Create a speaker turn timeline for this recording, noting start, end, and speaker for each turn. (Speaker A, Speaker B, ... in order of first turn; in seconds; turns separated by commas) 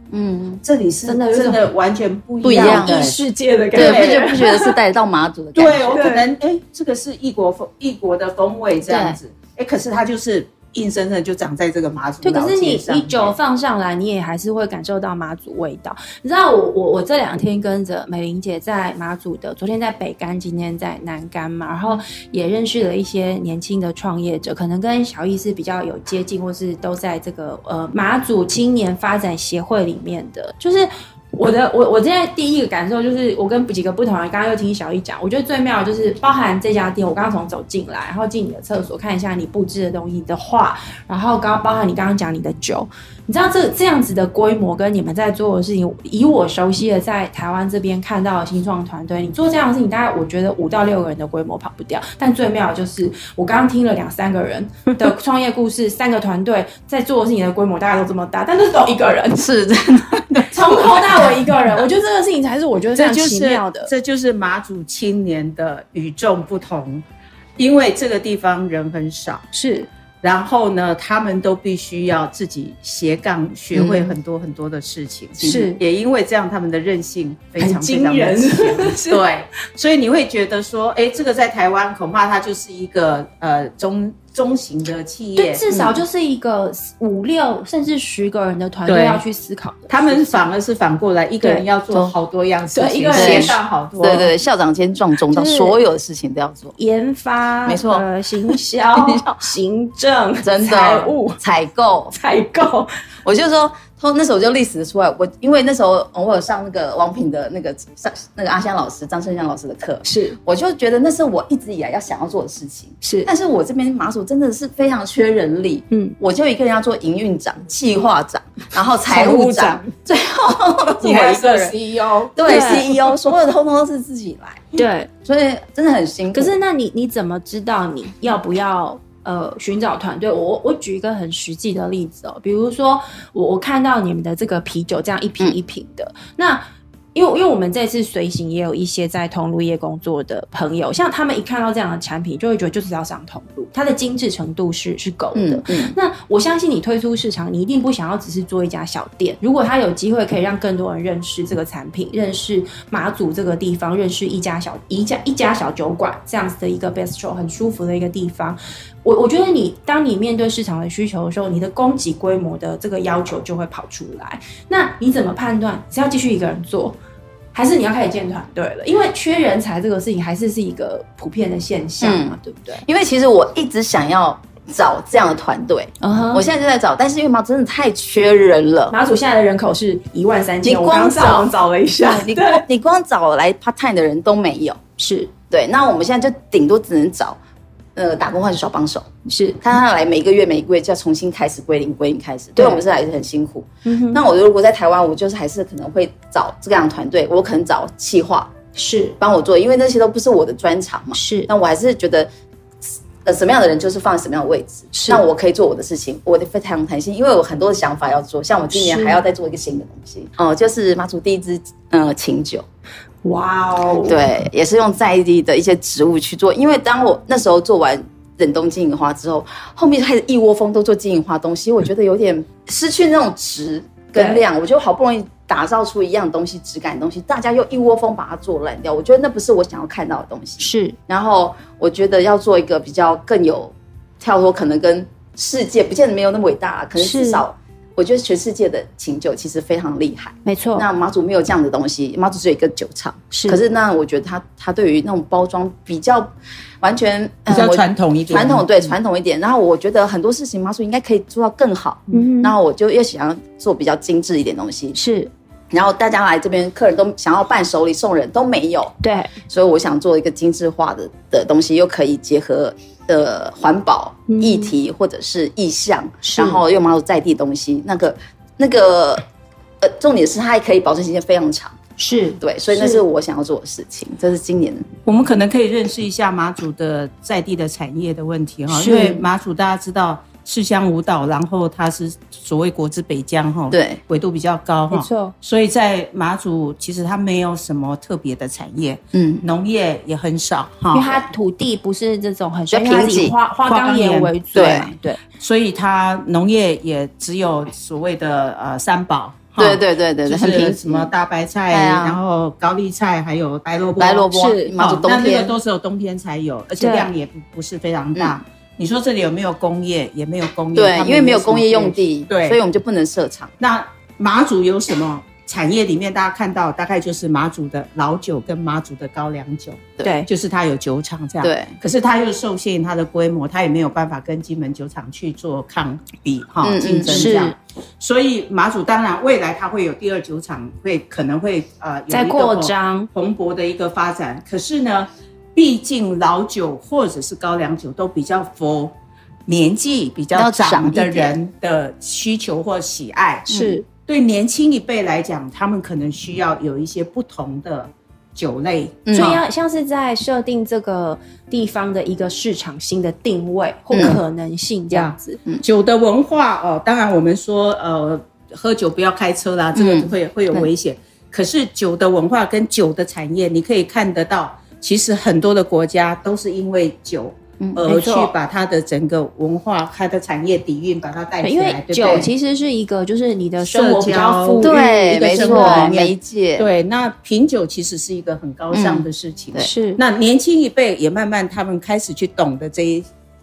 Speaker A: 0.1-0.6, Speaker B: 0.6-3.2, Speaker C: 1.1-1.7, Speaker A: 2.4-3.1, Speaker C: 2.4-4.7, Speaker B: 3.7-4.3, Speaker A: 3.7-6.0, Speaker B: 5.5-13.3, Speaker C: 5.9-6.2, Speaker C: 8.9-9.2, Speaker C: 12.2-59.5, Speaker A: 59.4-60.8, Speaker C: 60.4-63.9, Speaker B: 62.9-67.0, Speaker B: 67.6-69.5, Speaker C: 69.5-69.9, Speaker B: 70.2-85.6, Speaker A: 73.7-74.1, Speaker C: 75.4-75.8, Speaker C: 77.6-79.2, Speaker C: 85.3-90.4, Speaker A: 85.7-86.0, Speaker B: 88.8-89.2, Speaker B: 89.9-94.3, Speaker C: 92.7-93.6, Speaker A: 93.1-96.8, Speaker C: 95.3-95.8, Speaker C: 96.8-101.4, Speaker A: 97.7-98.0, Speaker A: 99.0-99.2, Speaker A: 100.4-102.1, Speaker C: 102.1-102.9, Speaker A: 103.2-121.8, Speaker C: 110.0-110.4, Speaker C: 113.0-113.3, Speaker C: 115.9-116.2, Speaker B: 119.1-119.9, Speaker B: 121.0-122.3, Speaker A: 122.3-126.5, Speaker C: 122.4-122.9, Speaker C: 124.7-125.1, Speaker C: 126.3-136.6, Speaker C: 137.1-167.0, Speaker A: 145.3-145.9, Speaker C: 167.5-172.8, Speaker A: 172.0-178.9, Speaker C: 176.0-176.4, Speaker C: 178.9-182.6, Speaker A: 180.6-181.5, Speaker A: 182.0-184.8, Speaker C: 185.0-185.3, Speaker A: 185.5-187.4, Speaker A: 187.9-189.1, Speaker C: 189.2-189.6, Speaker A: 189.6-198.5, Speaker C: 192.6-192.8, Speaker C: 193.8-194.2, Speaker C: 198.7-199.2, Speaker A: 199.2-202.3, Speaker C: 201.1-201.5, Speaker A: 202.8-212.6, Speaker C: 204.9-205.2, Speaker C: 208.7-209.2, Speaker C: 213.2-214.2, Speaker A: 214.0-255.0, Speaker C: 224.1-224.4, Speaker C: 230.6-231.0, Speaker C: 237.0-237.4, Speaker C: 240.4-240.8, Speaker C: 243.3-243.6, Speaker B: 247.5-248.9, Speaker C: 252.1-252.5, Speaker C: 254.9-255.3, Speaker A: 255.7-258.9, Speaker C: 259.0-259.3, Speaker A: 259.5-269.2, Speaker C: 264.3-264.7, Speaker C: 266.2-266.6, Speaker A: 269.8-271.8, Speaker C: 272.0-273.0, Speaker A: 272.4-274.9, Speaker B: 275.1-291.2, Speaker C: 278.7-279.2, Speaker A: 283.7-284.0, Speaker C: 284.9-285.3, Speaker A: 289.1-289.4, Speaker C: 290.9-295.2, Speaker A: 292.7-293.3, Speaker B: 293.6-312.6, Speaker A: 294.5-294.9, Speaker A: 299.6-301.1, Speaker A: 301.7-302.2, Speaker A: 304.0-305.6, Speaker C: 304.3-304.8, Speaker C: 306.8-307.1, Speaker A: 310.7-313.5, Speaker B: 313.6-338.9, Speaker C: 320.0-320.3, Speaker A: 321.4-321.8, Speaker A: 326.6-327.3, Speaker C: 327.1-327.5, Speaker C: 332.1-333.1, Speaker B: 339.5-349.4, Speaker A: 340.3-341.3, Speaker A: 343.5-343.8, Speaker C: 343.5-343.9, Speaker A: 349.1-349.4, Speaker C: 349.1-355.4, Speaker A: 353.9-354.2, Speaker B: 354.9-372.3, Speaker A: 359.7-360.6, Speaker C: 367.9-368.3, Speaker C: 371.4-376.0, Speaker B: 373.6-383.1, Speaker A: 374.6-376.7, Speaker A: 378.7-379.7, Speaker C: 379.6-380.0